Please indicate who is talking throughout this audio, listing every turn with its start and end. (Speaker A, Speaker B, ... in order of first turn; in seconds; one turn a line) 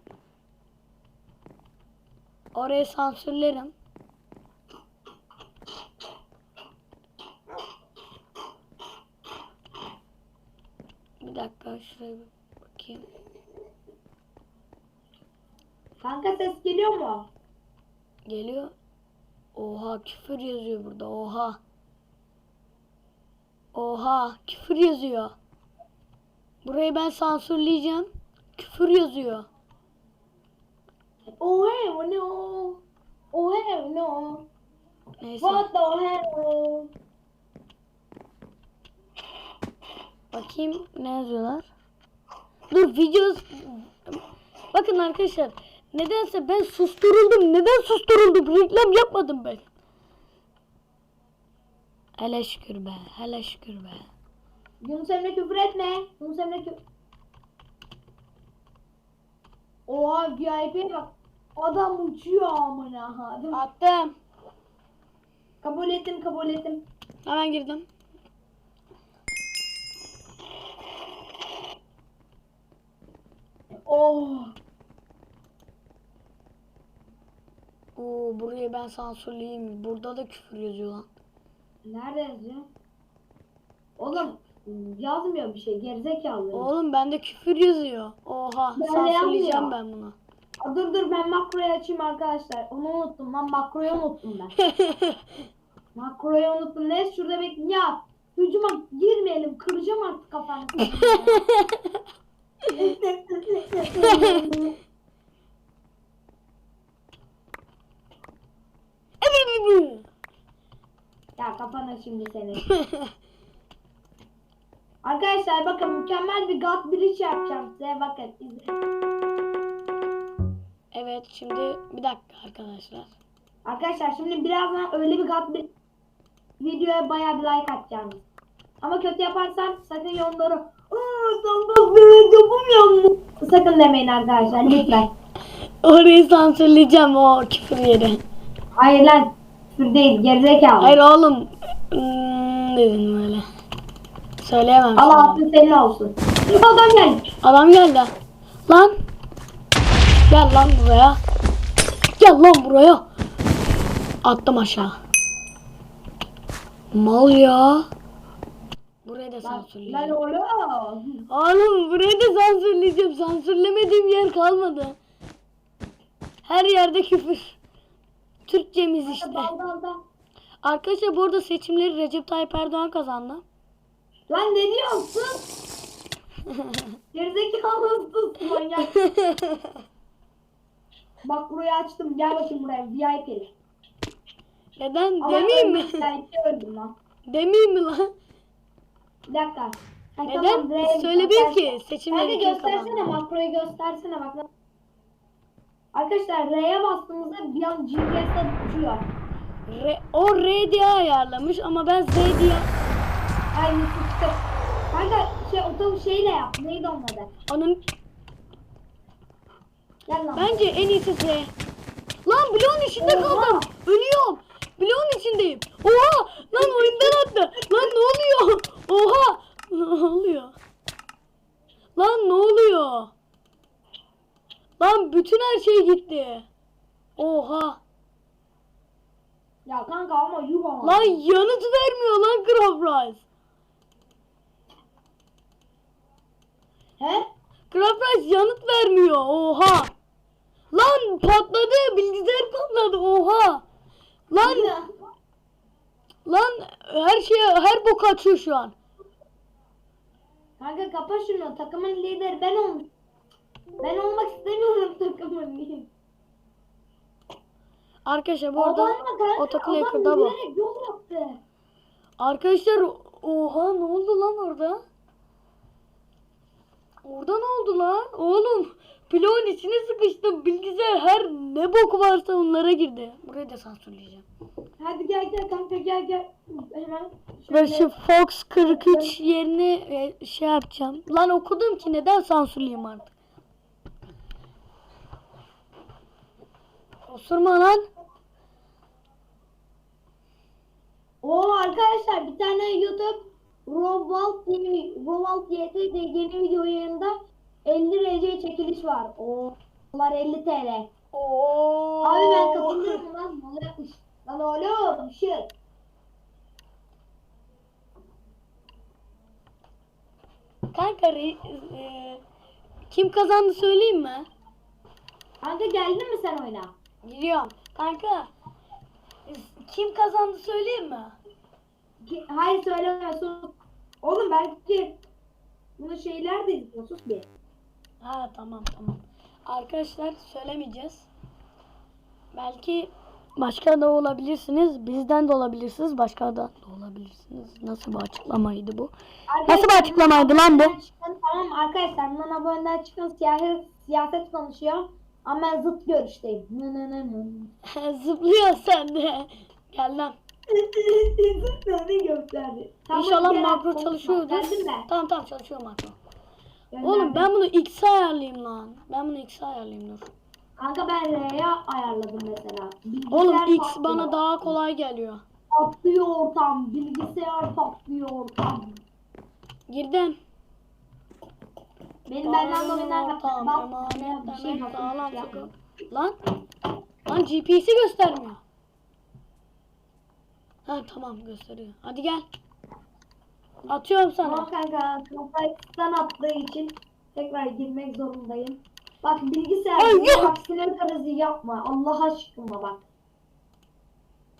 Speaker A: 2.5-3.7
Speaker A: 11.2-13.0
Speaker B: 16.0-17.3
Speaker A: 18.3-18.7
Speaker A: 19.6-21.6
Speaker A: 23.7-25.3
Speaker A: 26.6-29.5
Speaker B: 31.3-34.5
Speaker A: 35.2-35.7
Speaker B: 35.4-36.9
Speaker A: 40.3-41.7
Speaker A: 42.7-44.2
Speaker A: 44.7-49.7
Speaker A: 52.2-54.1
Speaker B: 54.8-56.8
Speaker B: 59.9-63.6
Speaker A: 63.5-64.1
Speaker B: 65.6-66.8
Speaker A: 67.2-67.9
Speaker B: 73.9-74.5
Speaker A: 78.0-81.1
Speaker B: 81.8-82.7
Speaker B: 84.0-86.7
Speaker A: 86.5-90.2
Speaker B: 88.8-89.8
Speaker B: 90.6-94.5
Speaker A: 94.6-95.2
Speaker B: 96.0-101.4
Speaker A: 100.8-102.0
Speaker A: 102.7-102.9
Speaker B: 102.8-104.7
Speaker A: 103.9-104.7
Speaker A: 109.2-110.1
Speaker B: 111.4-112.7
Speaker A: 112.7-113.1
Speaker B: 115.0-118.8
Speaker A: 120.9-123.1
Speaker B: 123.7-125.7
Speaker B: 126.6-128.2
Speaker B: 128.8-135.1
Speaker A: 135.8-138.2
Speaker B: 138.8-140.9
Speaker A: 140.8-143.4
Speaker A: 144.4-145.4
Speaker B: 145.0-147.3
Speaker A: 147.4-148.1
Speaker A: 148.7-149.0
Speaker A: 150.3-151.2
Speaker A: 152.2-153.1
Speaker A: 154.2-155.0
Speaker A: 156.9-157.9
Speaker A: 159.1-160.2
Speaker B: 159.4-161.2
Speaker A: 161.3-165.0
Speaker A: 166.5-167.6
Speaker A: 168.5-169.5
Speaker B: 169.0-170.0
Speaker A: 170.6-173.4
Speaker B: 174.3-175.5
Speaker A: 176.5-176.9
Speaker B: 177.1-178.9
Speaker A: 178.8-179.7
Speaker B: 181.2-183.5
Speaker A: 184.8-186.1
Speaker B: 185.2-186.9
Speaker A: 187.3-188.1
Speaker B: 189.3-194.5
Speaker A: 190.3-193.2
Speaker B: 195.9-199.1
Speaker A: 199.7-202.7
Speaker B: 203.5-207.3
Speaker A: 207.5-207.8
Speaker B: 210.1-210.7
Speaker A: 210.3-211.5
Speaker A: 212.3-220.6
Speaker B: 213.0-213.7
Speaker B: 216.5-217.9
Speaker A: 222.0-223.1
Speaker A: 224.8-226.5
Speaker A: 227.2-227.8
Speaker B: 229.7-231.2
Speaker A: 230.8-233.2
Speaker B: 237.0-237.3
Speaker A: 237.7-239.9
Speaker A: 240.7-243.6
Speaker A: 244.3-244.7
Speaker B: 244.4-244.9
Speaker A: 246.3-248.8
Speaker B: 250.6-252.9
Speaker B: 253.8-255.9
Speaker A: 258.1-260.4
Speaker B: 258.6-261.4
Speaker A: 262.2-264.8
Speaker A: 267.0-274.3
Speaker B: 274.8-277.9
Speaker A: 277.5-283.1
Speaker B: 278.7-279.2
Speaker A: 287.1-287.8
Speaker B: 291.2-300.9
Speaker A: 301.1-303.0
Speaker B: 302.0-305.5
Speaker A: 310.7-312.2
Speaker A: 312.9-314.3
Speaker B: 315.4-316.7
Speaker A: 317.0-318.3
Speaker A: 319.3-321.2
Speaker B: 322.0-325.0
Speaker B: 325.8-327.3
Speaker A: 328.0-331.1
Speaker A: 332.3-338.9
Speaker B: 339.3-347.5
Speaker A: 339.5-340.8
Speaker A: 347.7-350.2
Speaker B: 350.5-354.9
Speaker A: 352.9-356.0
Speaker B: 356.7-357.3
Speaker A: 356.8-360.1
Speaker B: 360.6-364.2
Speaker A: 363.1-365.2
Speaker B: 365.5-368.8
Speaker A: 369.7-370.2
Speaker B: 372.1-375.5
Speaker A: 372.2-376.2
Speaker A: 377.1-378.4
Speaker A: 380.7-382.3
Speaker A: 383.7-384.5
Speaker B: 384.2-392.8
Speaker A: 389.8-390.3